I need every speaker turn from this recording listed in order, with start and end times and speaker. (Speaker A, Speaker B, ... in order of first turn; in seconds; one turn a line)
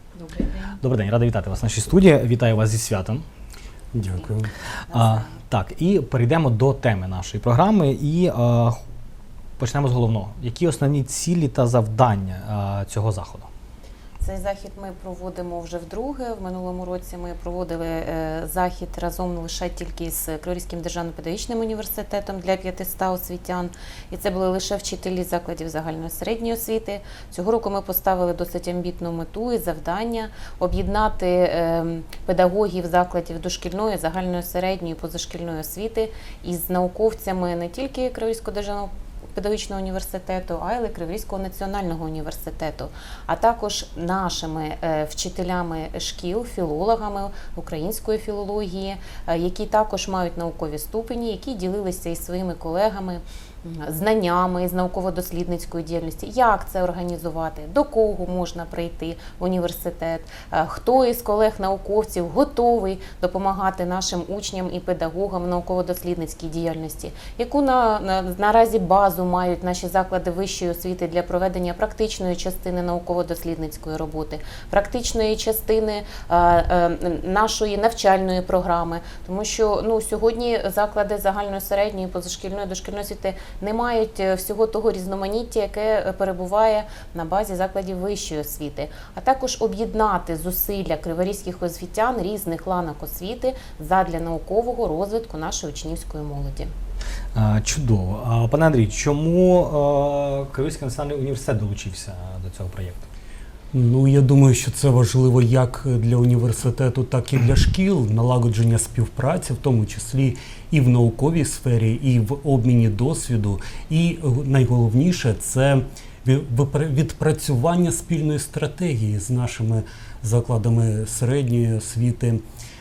Speaker A: 0.3-0.6
Speaker B: 0.6-3.2
Speaker C: 3.9-4.5
Speaker B: 4.9-8.8
Speaker A: 4.9-5.4
Speaker B: 9.6-13.5
Speaker A: 14.2-96.7
Speaker B: 97.3-103.1
Speaker C: 103.7-122.4